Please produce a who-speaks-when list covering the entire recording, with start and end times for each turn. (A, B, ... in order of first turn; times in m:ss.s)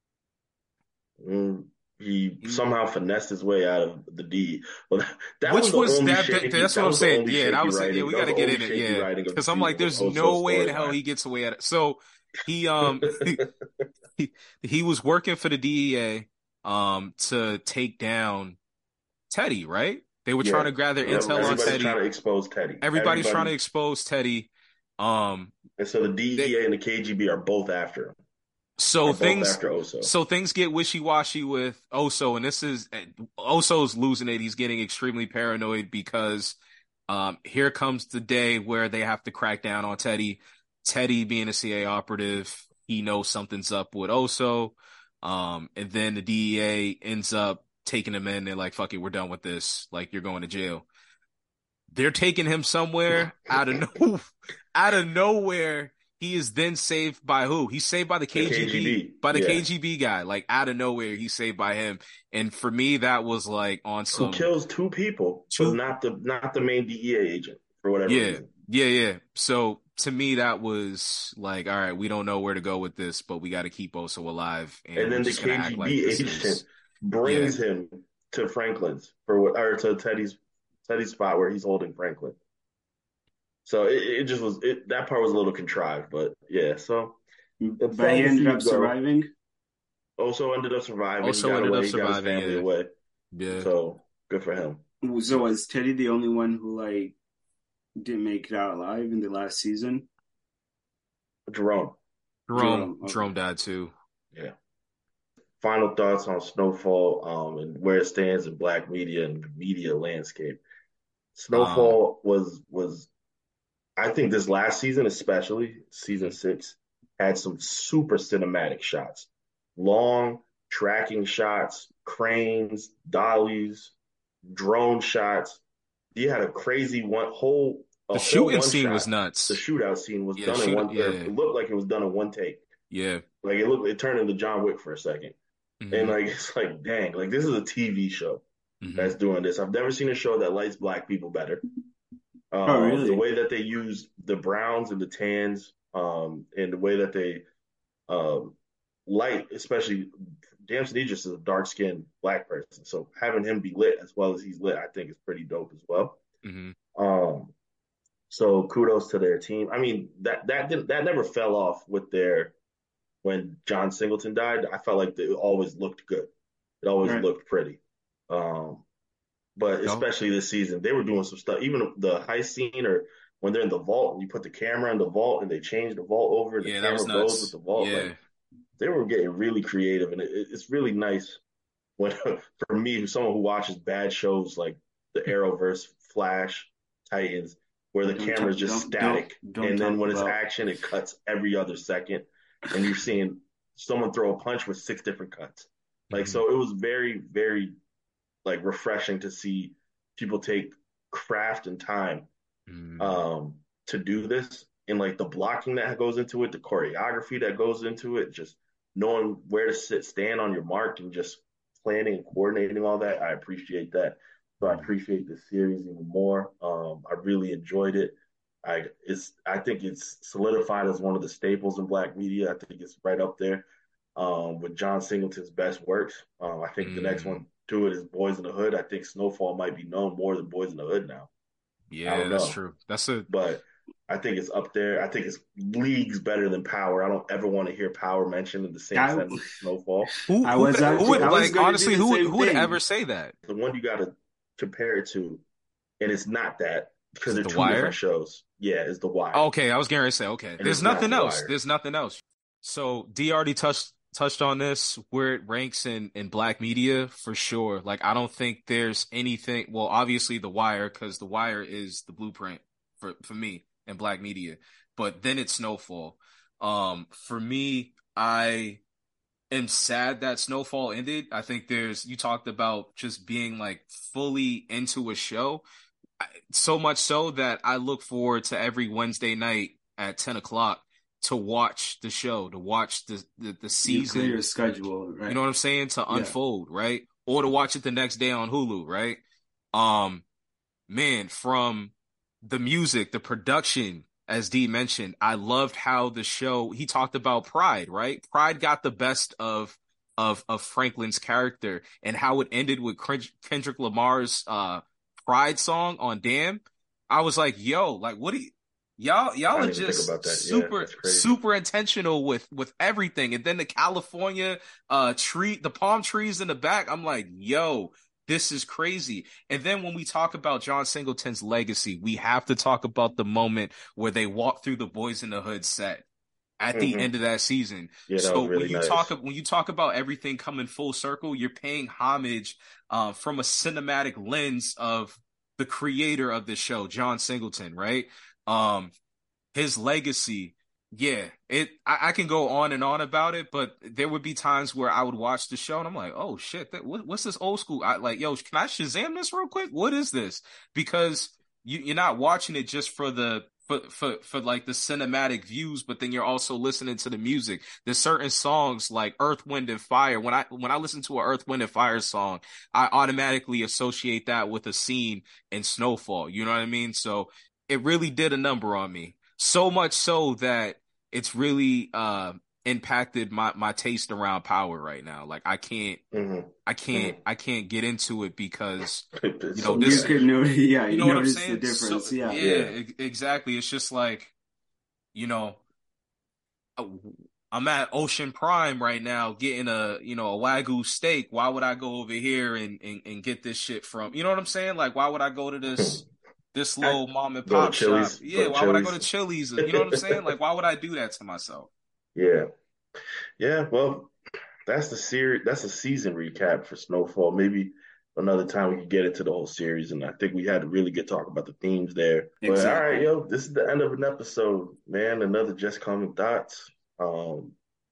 0:01.2-0:11.0 A
0:05.4-0:13.4 B
0:12.9-0:13.3 A
0:14.2-0:18.6 B
0:19.3-0:22.0 B
0:20.4-0:23.5 A
0:21.0-0:21.8 C
0:22.8-0:25.5 B
0:25.8-0:28.2 A
0:28.8-0:50.8 B
0:29.0-0:30.1 A
0:51.9-1:04.5 B
0:58.3-0:59.6 A
1:04.1-1:08.5 A
1:05.5-1:05.8 B
1:08.1-1:16.6 B
1:15.0-1:22.4 A
1:17.2-1:17.6 B
1:23.6-1:27.2 A
1:27.6-1:29.3 C
1:27.8-1:28.9 A
1:30.2-1:32.9 A
1:31.2-1:32.7 B
1:33.3-1:33.7 B
1:33.5-1:34.8 A
1:35.0-1:37.1 C
1:38.0-1:40.1 C
1:41.5-1:42.0 A
1:42.5-1:43.9 B
1:42.5-1:43.3 C
1:45.6-1:50.6 A
1:51.4-1:53.1 A
1:51.5-1:52.0 B
1:54.0-2:03.9 A
1:56.1-1:56.4 B
2:04.4-2:05.6 A
2:06.1-2:12.6 A
2:08.1-2:09.6 B
2:10.3-2:11.3 B
2:12.9-2:13.2 B
2:13.4-2:15.4 A
2:15.8-2:16.2 B
2:15.9-2:18.4 A
2:18.8-2:19.2 B
2:19.0-2:21.6 A
2:22.5-2:27.4 A
2:22.6-2:23.2 C
2:28.1-2:30.1 A
2:30.6-2:36.2 A
2:36.4-2:36.8 B
2:36.9-2:37.5 A
2:38.3-2:42.5 A
2:43.2-2:46.3 A
2:46.8-2:48.8 A
2:49.6-2:58.1 A
2:56.6-2:58.2 B
2:58.8-3:01.4 A
3:02.0-3:17.8 A
3:08.1-3:10.4 C
3:16.1-3:16.4 B
3:18.4-3:22.3 A
3:22.7-3:23.2 B
3:23.0-3:51.3 A
3:34.6-3:34.9 B
3:46.8-3:47.4 B
3:51.9-3:53.3 B
3:52.0-3:52.6 A
3:53.3-4:00.1 A
3:58.9-3:59.6 C
4:00.3-4:03.3 B
4:00.4-4:02.8 C
4:00.9-4:01.5 A
4:03.4-4:05.4 A
4:06.0-4:09.4 A
4:07.3-4:08.0 B
4:09.3-4:28.8 B
4:10.6-4:11.5 A
4:29.5-4:35.6 B
4:36.2-4:49.2 B
4:43.8-4:45.4 C
4:46.1-4:46.4 C
4:49.7-4:50.2 B
4:50.9-5:26.0 B
5:09.5-5:11.4 A
5:26.6-5:38.9 B
5:26.7-5:27.1 A
5:28.1-5:29.1 A
5:39.5-6:16.0 B
6:16.1-6:17.2 A
6:16.6-6:20.2 B
6:19.2-6:20.2 A
6:19.7-6:22.4 C
6:20.9-6:24.3 B
6:22.4-6:22.7 A
6:25.1-6:25.6 B
6:26.8-6:36.0 B
6:35.7-6:36.1 A
6:36.5-6:41.7 B
6:36.8-6:39.1 A
6:39.7-6:40.2 A
6:42.1-6:42.5 A
6:43.4-6:44.1 A
6:44.7-6:57.6 A
6:52.4-6:53.0 C